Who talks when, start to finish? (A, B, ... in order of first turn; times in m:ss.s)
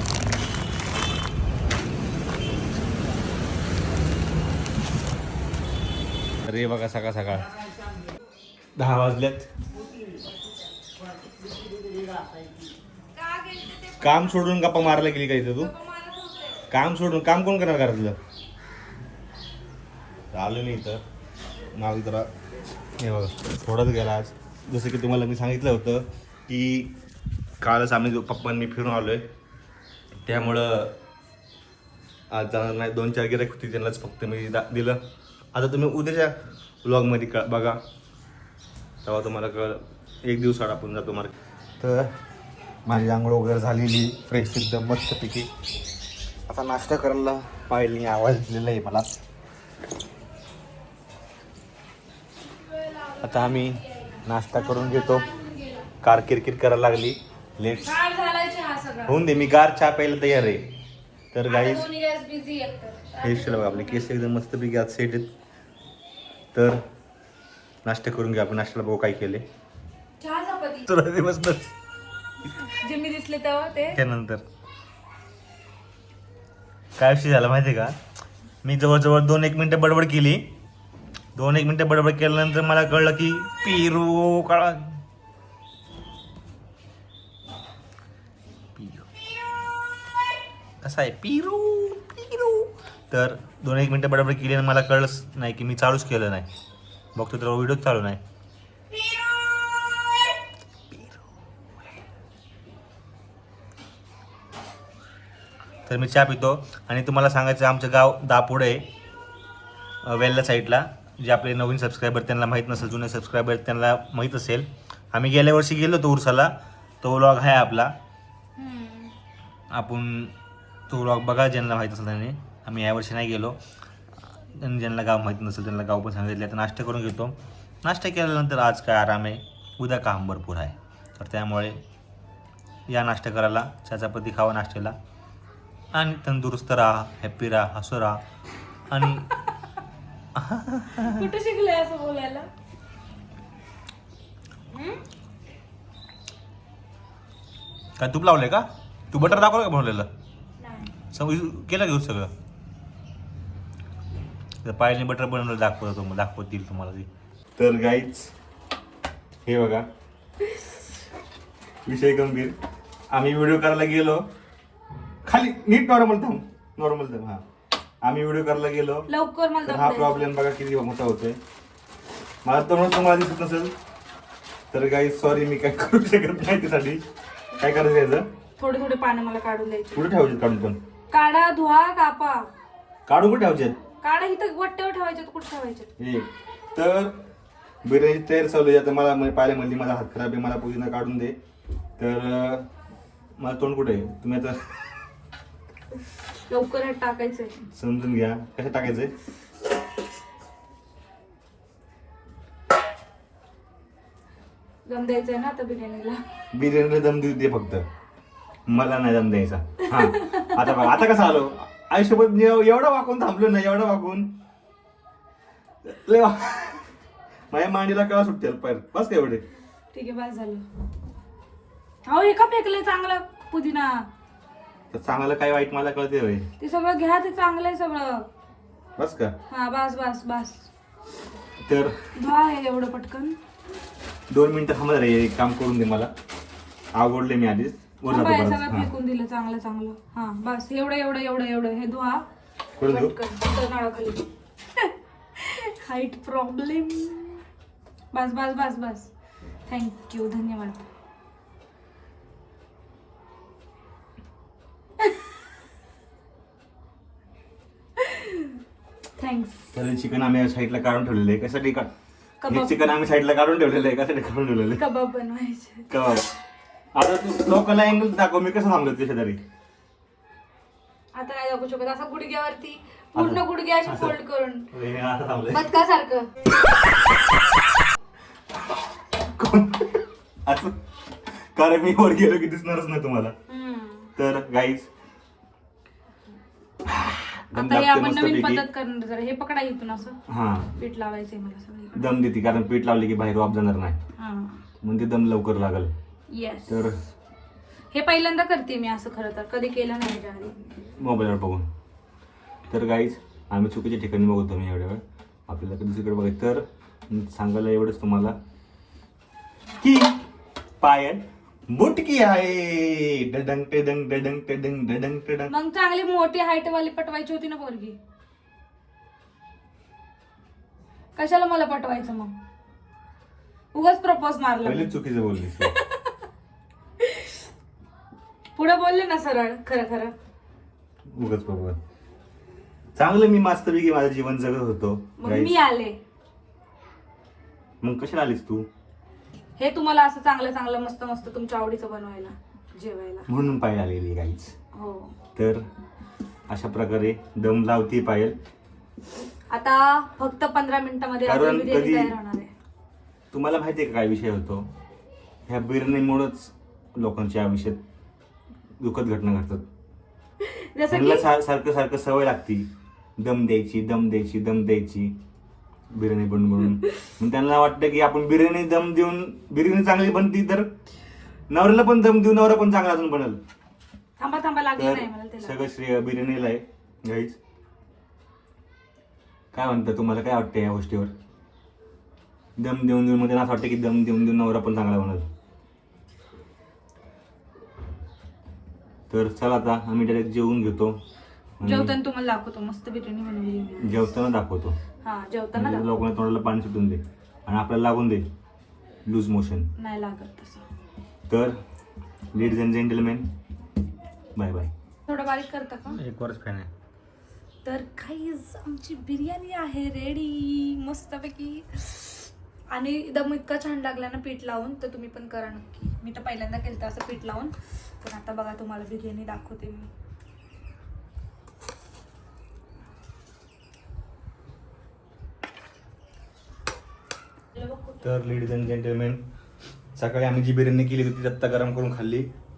0:06.4-0:07.5 A
0:08.8-0:09.5 A
0:13.2-0:14.8 B
0:14.0-0:15.7 A
0:15.6-0:16.6 B
0:16.7-0:18.2 A
0:20.3-0:21.0 A
0:21.7-0:22.3 A
0:23.0-0:26.9 A
0:27.6-0:29.2 A
0:30.2-0:31.0 A
0:32.3-0:35.0 A
0:35.5-0:37.8 A
0:39.0-0:42.1 A
0:42.8-0:45.5 A
0:46.5-0:49.1 A
0:52.8-0:55.9 B
0:53.2-0:55.3 A
0:56.0-0:58.0 A
0:57.8-0:59.2 B
0:59.0-1:00.7 A
1:01.3-1:01.9 A
1:01.4-1:04.1 B
1:03.2-1:05.3 A
1:06.5-1:06.8 A
1:07.8-1:09.4 A
1:10.2-1:10.9 B
1:10.9-1:11.7 A
1:12.6-1:14.0 B
1:13.9-1:14.4 A
1:17.0-1:17.9 A
1:18.6-1:20.4 A
1:21.4-1:24.9 A
1:28.8-1:29.1 A
1:30.8-1:36.5 A
1:37.2-1:38.2 A
1:40.9-1:41.2 A
1:45.9-1:48.9 A
1:50.0-1:57.9 A
1:58.6-1:59.1 B
1:59.7-2:00.3 A
2:00.9-2:03.6 A
2:04.5-2:11.8 A
2:12.9-2:14.9 A
2:15.9-2:18.2 A
2:18.9-2:19.3 A
2:20.3-2:21.3 A
2:21.0-2:22.5 B
2:24.7-2:25.0 B
2:28.0-2:30.1 A
2:30.6-2:30.9 B
2:31.1-2:32.3 A
2:34.6-2:38.3 A
2:39.4-2:39.8 A
2:41.8-2:42.5 A
2:43.1-2:44.2 A
2:45.2-2:47.4 A
2:48.0-2:49.1 A
2:49.1-2:50.3 B
2:49.6-2:51.4 A
2:52.4-2:53.7 A
2:54.7-2:57.0 A
2:57.6-2:58.3 A
2:58.6-3:00.0 B
2:59.9-3:00.8 A
3:01.1-3:02.5 B
3:03.1-3:03.8 A
3:04.0-3:05.9 B
3:06.0-3:07.2 A
3:07.8-3:11.4 A
3:12.0-3:12.7 A
3:13.4-3:14.7 A
3:16.5-3:17.6 B
3:17.7-3:19.1 A
3:24.8-3:26.2 B
3:26.5-3:27.8 A
3:28.7-3:34.3 A
3:29.9-3:31.0 B
3:35.8-3:36.8 A
3:37.5-3:39.4 A
3:39.9-3:40.6 B
3:42.0-3:44.1 B
3:44.9-3:46.5 A
3:46.6-3:48.3 B
3:49.0-3:49.3 A
3:49.5-3:50.7 B
3:51.6-3:52.0 A
3:52.2-3:53.4 B
3:54.3-3:56.1 A
3:56.9-3:58.9 A
3:58.1-4:02.2 B
4:02.8-4:03.1 A
4:02.8-4:04.2 B
4:04.8-4:07.4 B
4:08.1-4:09.1 B
4:09.7-4:10.9 B
4:18.0-4:18.6 B
4:19.2-4:19.7 B
4:19.7-4:21.9 A
4:22.4-4:22.9 B
4:22.5-4:24.8 A
4:24.7-4:25.9 B
4:25.9-4:26.3 A
4:26.9-4:29.4 A
4:31.1-4:34.7 B
4:33.2-4:35.7 A
4:35.5-4:36.3 B
4:39.1-4:40.8 A
4:41.5-4:43.3 A
4:43.5-4:44.1 B
4:44.2-4:44.9 A
4:46.8-4:48.6 A
4:47.5-4:50.2 B
4:50.3-4:50.7 A
4:50.8-4:52.1 B
4:51.9-4:54.0 A
4:54.2-4:54.6 B
4:54.8-4:55.9 A
4:56.3-4:56.9 B
4:56.7-4:57.0 A
4:57.9-5:00.6 B
5:01.0-5:01.7 A
5:02.7-5:08.4 A
5:09.8-5:10.2 A
5:10.8-5:15.5 A
5:15.5-5:18.0 B
5:21.2-5:22.3 B
5:23.7-5:24.9 B
5:24.6-5:25.7 A
5:25.6-5:26.1 B
5:27.0-5:27.4 B
5:28.6-5:30.1 B
5:31.1-5:31.8 A
5:32.9-5:35.5 A
5:35.2-5:36.0 B
5:37.8-5:38.7 A
5:39.6-5:43.3 B
5:43.3-5:44.5 A
5:44.7-5:45.1 B
5:45.3-5:45.6 A
5:46.5-5:48.4 A
5:49.5-5:52.5 B
5:51.2-5:52.1 A
5:53.3-5:54.7 A
5:55.5-5:57.8 A
5:58.8-5:59.7 A
6:00.4-6:01.2 B
6:00.9-6:05.2 A
6:05.9-6:10.7 A
6:11.5-6:13.4 A
6:14.2-6:15.6 B
6:14.8-6:17.4 A
6:19.5-6:21.1 A
6:22.6-6:25.2 A
6:29.1-6:31.0 A
6:31.6-6:32.0 A
6:31.6-6:34.0 B
6:33.8-6:34.8 A
6:35.0-6:35.9 B
6:35.5-6:38.2 A
6:39.0-6:39.7 A
6:39.8-6:40.6 B
6:41.3-6:41.6 A
6:42.3-6:43.3 A
6:44.4-6:44.7 A
6:45.1-6:46.0 B
6:45.8-6:46.7 A
6:47.6-6:59.9 B
7:08.0-7:09.2 A
7:10.0-7:12.3 A